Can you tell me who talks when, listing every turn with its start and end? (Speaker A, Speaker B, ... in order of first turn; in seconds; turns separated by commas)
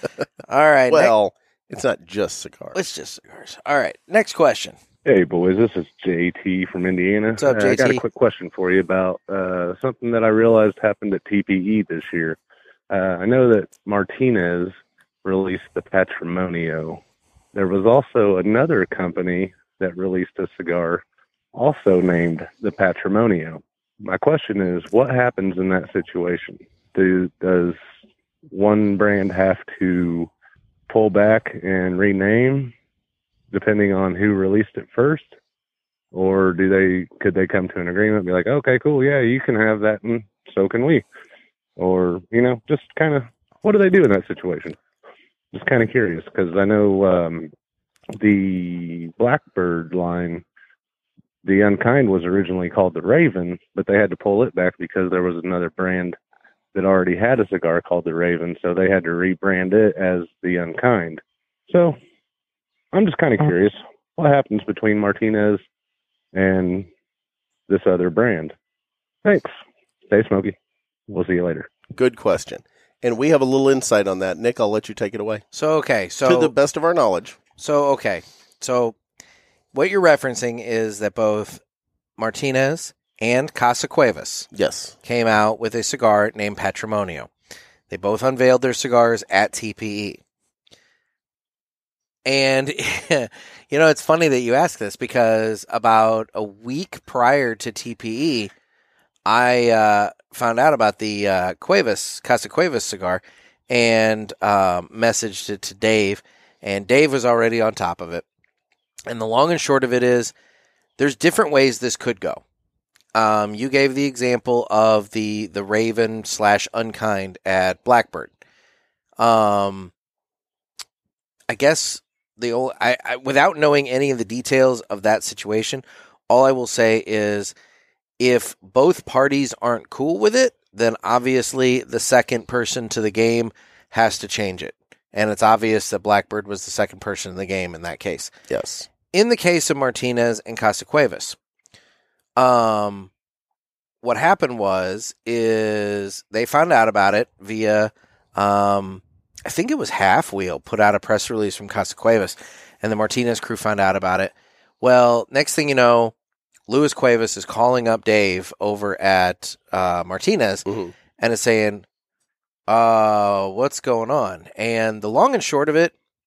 Speaker A: 0.5-1.1, Speaker B: 0.9-2.8, Speaker A: 2.7-4.8, Speaker C: 5.0-12.4, Speaker A: 7.4-8.0, Speaker C: 12.9-17.0, Speaker C: 17.5-21.0, Speaker C: 21.5-27.8, Speaker C: 28.5-30.3, Speaker C: 30.9-32.7, Speaker C: 33.5-35.3, Speaker C: 36.1-41.0, Speaker C: 41.8-44.8, Speaker C: 45.5-47.5, Speaker C: 48.2-50.4, Speaker C: 51.4-56.2, Speaker C: 56.7-62.0, Speaker C: 62.9-65.6, Speaker C: 66.3-66.9, Speaker C: 67.7-68.5, Speaker C: 69.2-69.5, Speaker C: 70.1-70.5, Speaker C: 71.1-71.7, Speaker B: 71.9-75.4, Speaker A: 75.5-76.5, Speaker B: 76.2-77.4, Speaker A: 77.6-79.0, Speaker A: 79.7-81.6, Speaker A: 82.2-84.5, Speaker B: 84.5-85.0, Speaker A: 85.0-87.3, Speaker A: 87.9-90.2, Speaker A: 92.2-98.5, Speaker A: 99.2-108.2, Speaker A: 109.1-110.3, Speaker A: 111.0-112.4, Speaker A: 113.1-118.3, Speaker A: 119.2-119.9, Speaker A: 121.5-127.5, Speaker A: 128.2-138.3, Speaker B: 138.5-138.9, Speaker A: 139.1-141.4, Speaker A: 142.4-143.1, Speaker A: 144.0-156.1, Speaker A: 156.7-160.7, Speaker B: 160.7-160.9, Speaker A: 161.2-161.8, Speaker A: 162.7-165.9